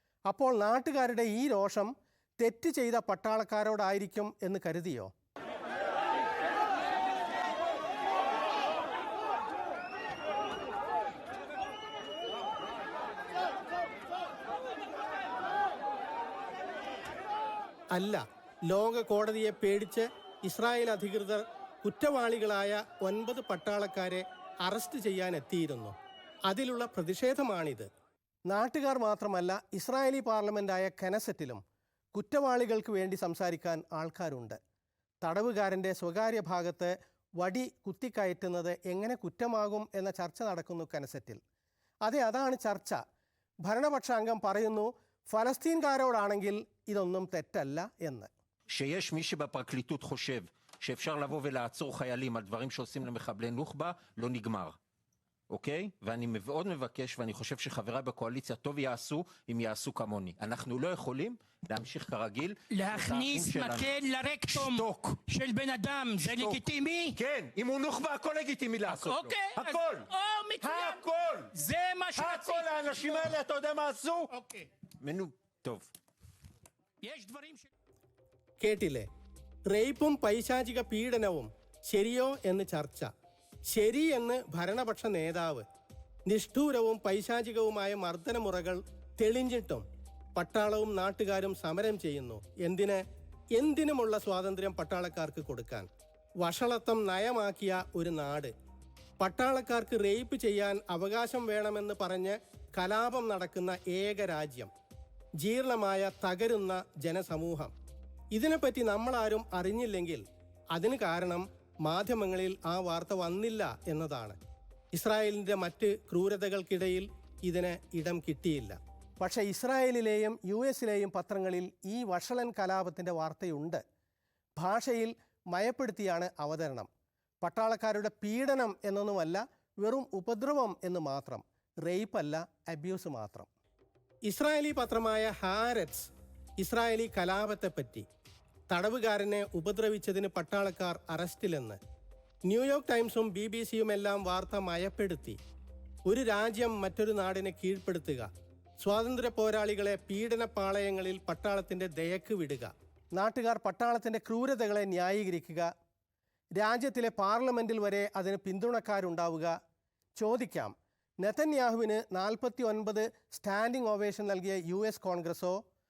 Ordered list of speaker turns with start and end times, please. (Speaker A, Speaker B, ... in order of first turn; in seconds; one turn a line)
Speaker A: 0.3-5.1
Speaker A: 17.9-25.9
Speaker A: 26.5-27.9
Speaker A: 28.5-31.6
Speaker A: 32.1-34.6
Speaker A: 35.2-41.4
Speaker A: 42.0-43.0
Speaker A: 43.6-48.3
Speaker B: 48.7-54.8
Speaker B: 55.5-64.0
Speaker C: 62.7-67.2
Speaker B: 64.5-65.1
Speaker B: 66.3-70.1
Speaker C: 68.9-73.3
Speaker B: 70.6-71.5
Speaker B: 72.1-74.3
Speaker B: 75.0-75.9
Speaker C: 77.0-77.7
Speaker A: 78.6-79.1
Speaker A: 79.7-83.1
Speaker A: 83.7-85.7
Speaker A: 86.3-89.8
Speaker A: 90.3-93.0
Speaker A: 93.5-95.9
Speaker A: 96.4-98.5
Speaker A: 99.2-104.7
Speaker A: 105.4-107.7
Speaker A: 108.3-110.2
Speaker A: 110.7-114.4
Speaker A: 114.9-123.8
Speaker A: 124.6-126.9
Speaker A: 127.4-133.5
Speaker A: 134.3-138.1
Speaker A: 138.7-141.8
Speaker A: 142.5-145.4
Speaker A: 146.1-148.3
Speaker A: 148.8-155.7
Speaker A: 156.6-159.5
Speaker A: 160.2-165.6